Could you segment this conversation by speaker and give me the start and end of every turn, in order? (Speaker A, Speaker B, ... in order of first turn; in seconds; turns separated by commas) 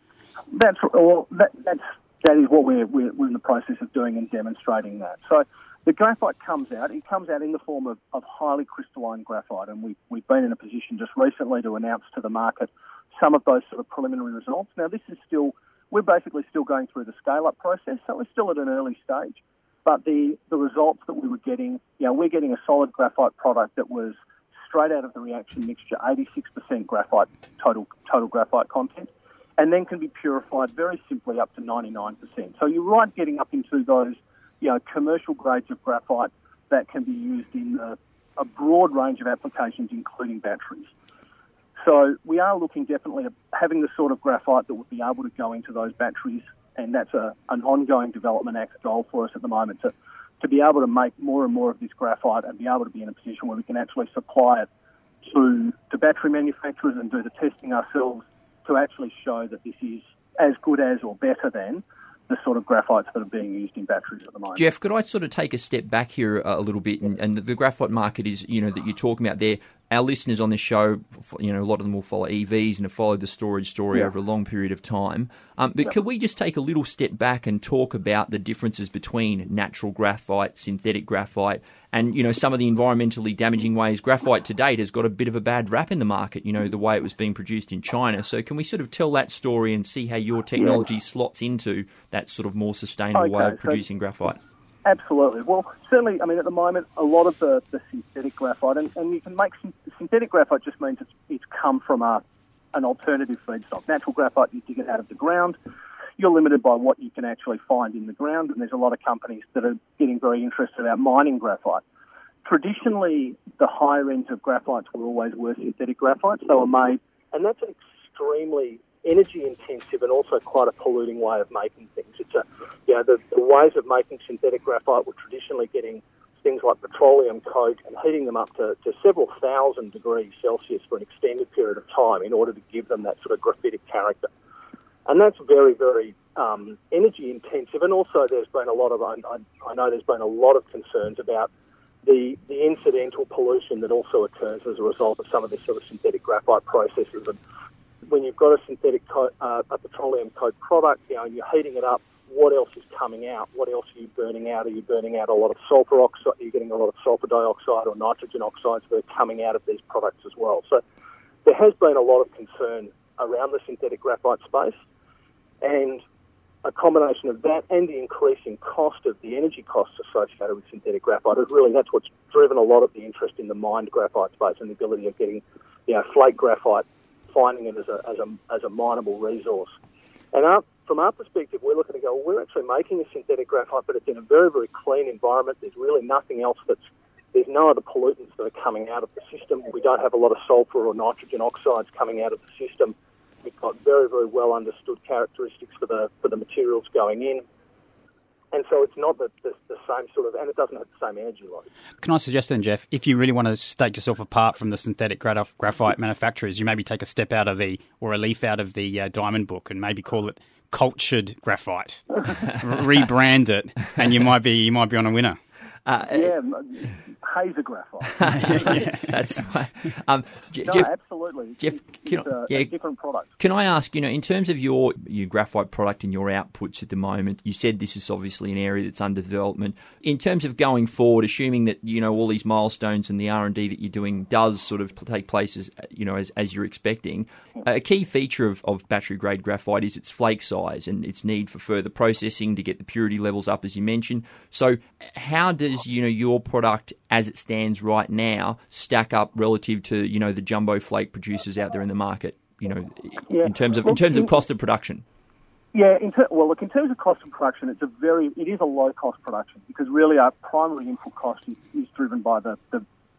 Speaker A: 0.5-40.9, Speaker A: 41.8-54.7, Speaker A: 55.2-64.6, Speaker B: 64.5-94.4, Speaker A: 93.1-93.8, Speaker A: 94.8-102.2, Speaker A: 102.7-105.6, Speaker A: 106.2-111.8, Speaker A: 112.4-134.3, Speaker A: 135.1-141.5, Speaker A: 142.0-147.4, Speaker A: 148.1-160.8, Speaker A: 161.4-164.7, Speaker A: 165.6-166.0, Speaker A: 166.6-179.7, Speaker A: 180.3-186.8, Speaker A: 187.3-197.4, Speaker A: 198.5-201.7, Speaker C: 202.0-215.4, Speaker B: 215.8-216.3, Speaker A: 216.1-218.9, Speaker B: 218.2-220.9, Speaker C: 218.4-218.9, Speaker A: 220.6-223.3, Speaker B: 221.6-222.7, Speaker B: 223.4-255.0, Speaker A: 253.3-254.3, Speaker A: 255.7-262.8